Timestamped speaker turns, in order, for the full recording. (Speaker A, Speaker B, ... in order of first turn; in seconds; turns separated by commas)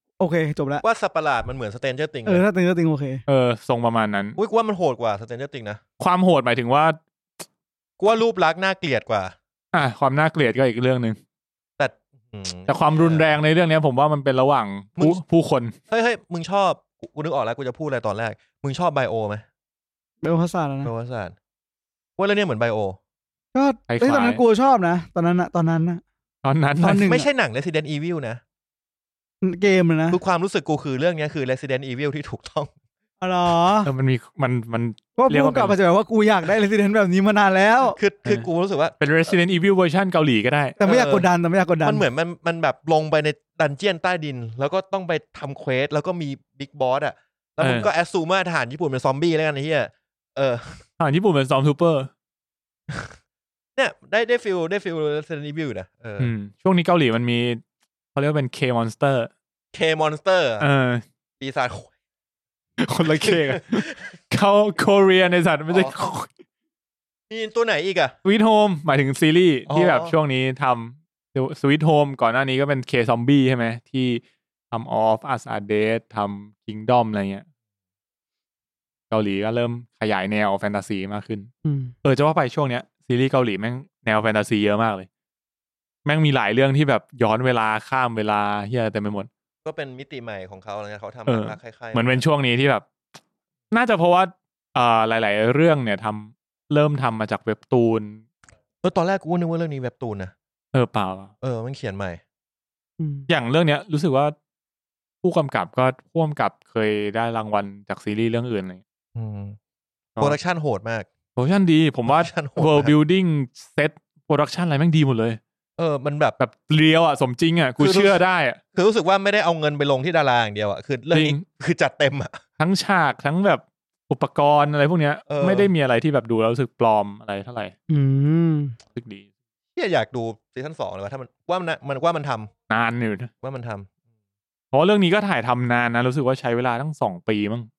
Speaker A: 0.2-0.8, Speaker B: 0.8-2.4, Speaker A: 2.2-3.2, Speaker C: 3.3-4.4, Speaker B: 4.4-5.8, Speaker C: 6.0-7.0, Speaker B: 8.0-9.3, Speaker C: 9.7-11.2, Speaker B: 11.8-13.3, Speaker C: 12.7-15.7, Speaker B: 15.9-19.4, Speaker A: 20.2-20.9, Speaker B: 20.8-21.4, Speaker B: 22.2-23.0, Speaker A: 23.5-26.0, Speaker C: 23.9-24.4, Speaker C: 26.4-27.1, Speaker A: 26.8-27.3, Speaker B: 27.0-28.4, Speaker A: 29.4-30.2, Speaker B: 30.1-32.7, Speaker A: 33.2-33.9, Speaker C: 33.9-35.8, Speaker A: 35.2-38.0, Speaker B: 37.9-39.0, Speaker C: 39.0-40.8, Speaker A: 40.8-42.0, Speaker B: 40.8-41.3, Speaker B: 41.8-50.8, Speaker C: 47.6-47.9, Speaker C: 51.0-52.1, Speaker B: 52.9-53.1, Speaker B: 53.8-56.3, Speaker C: 56.2-57.6, Speaker C: 58.1-59.3, Speaker B: 59.7-60.6, Speaker C: 60.6-61.0, Speaker B: 61.4-61.9, Speaker C: 62.8-66.3, Speaker B: 63.1-64.1, Speaker B: 65.7-66.0, Speaker B: 67.3-68.2, Speaker C: 68.2-77.5, Speaker B: 69.7-70.1, Speaker C: 79.1-81.5, Speaker A: 81.7-81.9, Speaker C: 82.0-85.1, Speaker C: 86.0-89.3, Speaker B: 89.6-92.2, Speaker C: 91.3-92.9, Speaker C: 93.7-98.2, Speaker B: 98.8-100.3, Speaker C: 100.7-101.3, Speaker B: 101.4-102.2, Speaker A: 103.0-103.3, Speaker C: 103.3-104.3, Speaker C: 105.2-108.8, Speaker B: 109.2-109.6, Speaker B: 110.2-111.1, Speaker C: 111.4-115.4, Speaker B: 112.1-113.0, Speaker B: 115.8-116.4, Speaker C: 116.4-118.6, Speaker B: 117.8-118.2, Speaker B: 118.8-122.4, Speaker C: 121.1-121.4, Speaker C: 122.6-127.7, Speaker B: 125.3-125.7, Speaker A: 127.9-128.8, Speaker C: 128.9-129.3, Speaker B: 129.8-132.5, Speaker C: 132.7-133.3, Speaker B: 133.4-133.9, Speaker C: 134.7-137.7